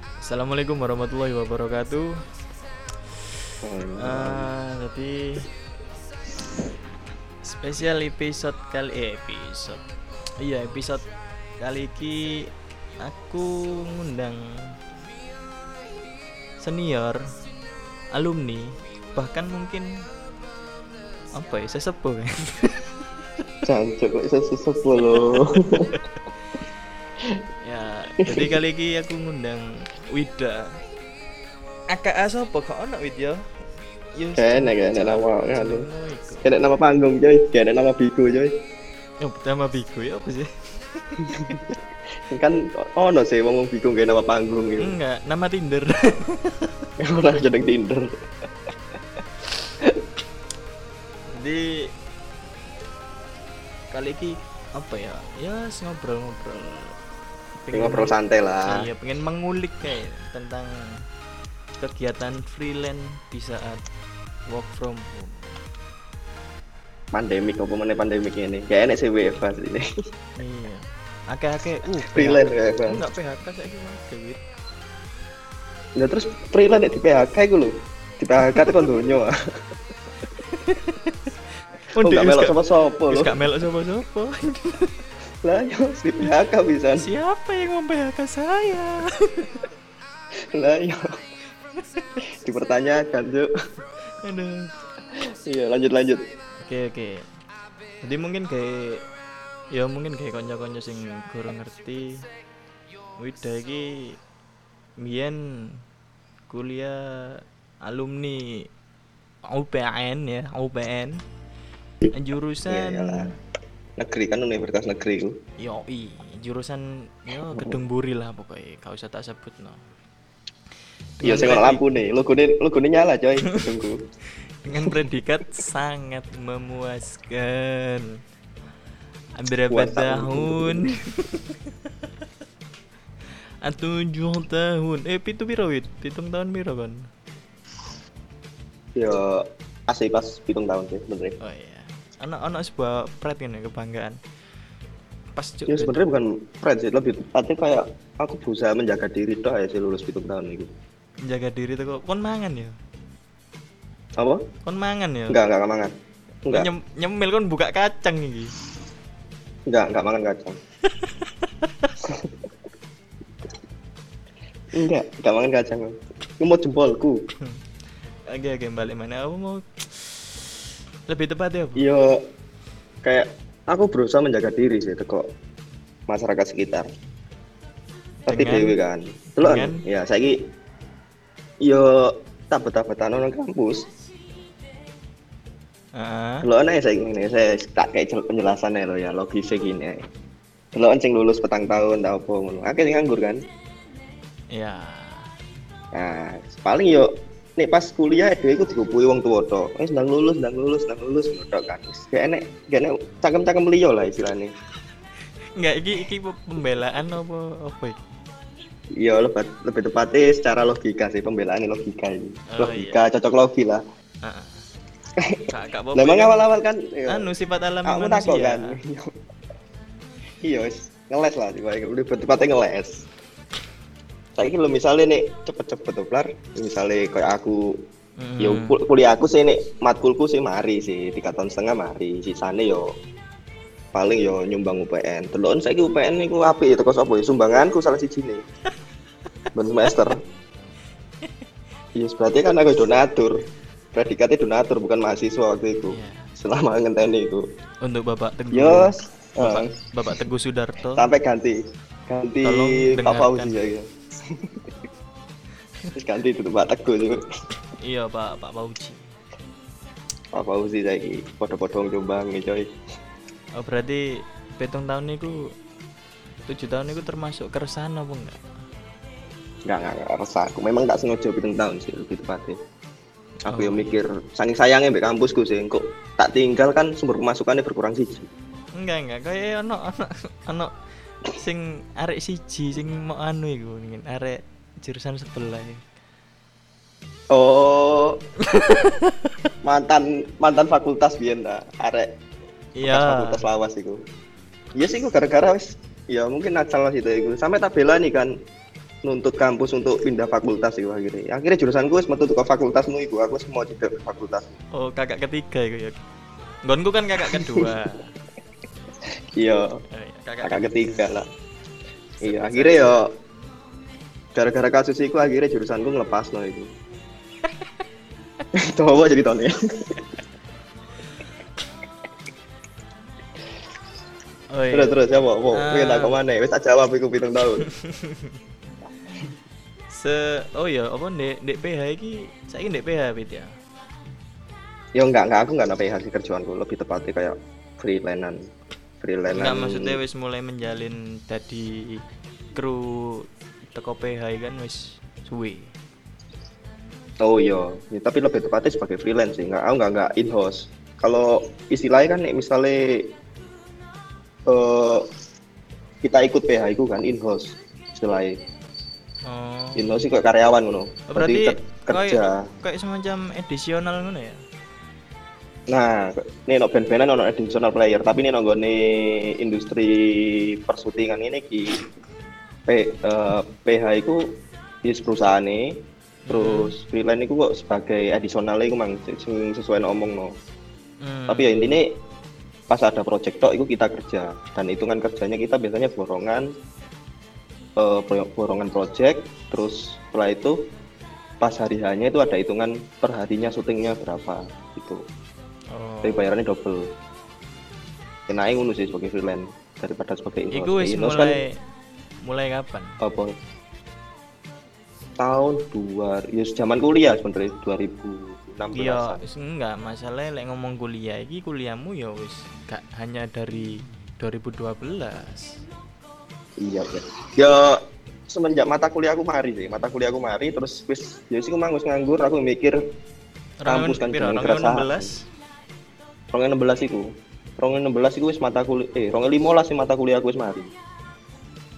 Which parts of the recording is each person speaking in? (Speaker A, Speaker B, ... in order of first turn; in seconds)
Speaker A: 0.2-2.1, 4.0-5.2, 7.4-9.8, 10.4-11.0, 11.6-12.4, 13.0-14.4, 16.6-17.2, 18.1-19.9, 21.4-22.9, 25.1-26.0, 27.6-30.8, 31.9-33.4, 34.2-36.5, 39.2-41.6, 44.8-46.7, 51.3-51.9, 53.9-57.0, 57.6-58.1, 58.7-60.8, 61.8-63.8, 64.5-65.6, 70.4-74.4, 78.5-78.8, 80.5-81.3, 81.9-85.0, 87.0-89.6, 94.2-94.7, 96.6-97.2, 98.0-99.0, 99.7-102.3, 103.2-104.2, 105.0-105.8, 106.5-108.7, 109.5-111.2, 112.1-113.3, 115.6-119.8, 121.2-121.8, 124.6-128.1, 129.4-131.9, 133.6-137.1, 141.4-144.2, 145.4-146.0, 151.3-152.7, 154.7-155.4, 156.5-158.5, 160.9-161.9, 168.3-170.4, 171.1-171.8, 178.3-178.8, 179.4-179.8, 185.9-186.5, 194.5-195.3, 205.6-208.0, 212.5-213.0, 214.2-214.6, 215.5-216.4, 217.1-218.8, 228.2-228.8, 245.9-246.3, 247.8-251.1, 252.4-253.5, 257.8-259.1, 263.6-265.5, 266.5-268.4, 273.5-274.0, 278.8-280.7, 281.2-285.8, 288.4-289.4, 292.8-293.4, 304.7-306.0, 306.6-308.1, 309.9-311.1, 312.2-313.0, 324.5-325.0, 325.5-326.2, 327.7-328.3, 329.9-333.5, 339.3-342.0, 342.6-345.7, 359.3-359.9, 361.1-364.4, 376.3-376.7, 381.0-381.8, 395.7-396.3, 400.5-401.6, 402.2-402.9, 408.8-415.5, 423.6-425.2
Speaker B: 3.6-4.5, 23.7-25.9, 28.2-28.5, 34.4-35.9, 36.4-38.5, 41.3-41.7, 42.3-44.9, 47.0-48.2, 57.7-58.8, 67.1-69.9, 72.0-73.0, 76.0-79.3, 82.0-83.4, 85.4-87.0, 90.5-91.0, 92.4-93.5, 95.5-96.2, 112.7-113.3, 114.0-115.4, 121.2-124.0, 124.8-125.1, 129.7-131.0, 139.0-141.4, 145.7-150.7, 154.2-154.4, 155.3-155.9, 159.7-160.6, 162.0-162.3, 164.7-167.2, 171.8-172.2, 173.0-175.3, 176.1-176.9, 178.3-180.4, 181.6-183.9, 186.4-190.0, 190.7-193.5, 195.9-204.5, 209.0-213.8, 216.0-217.3, 217.9-219.1, 220.4-223.0, 224.4-227.6, 228.4-232.9, 233.9-238.4, 239.5-240.2, 242.0-243.4, 243.9-247.4, 248.5-249.7, 250.9-251.6, 252.1-254.6, 255.9-257.2, 260.3-262.7, 269.7-272.6, 273.5-278.3, 287.3-288.2, 289.6-292.1, 292.9-294.0, 294.8-298.3, 299.0-304.6, 307.2-307.8, 309.4-309.8, 310.4-311.3, 312.2-313.1, 314.4-316.7, 318.5-320.0, 324.7-327.7, 335.0-338.4, 339.0-340.0, 347.2-353.1, 354.5-355.1, 356.0-358.4, 359.8-362.5, 365.7-371.8, 372.7-374.2, 374.8-375.6, 376.3-380.3, 381.3-381.9, 382.7-386.5, 387.8-390.6, 391.4-395.0, 396.0-396.9, 398.3-401.4, 403.0-403.3, 405.2-409.2, 416.6-422.8, 423.7-425.1, 426.3-427.1, 427.6-430.7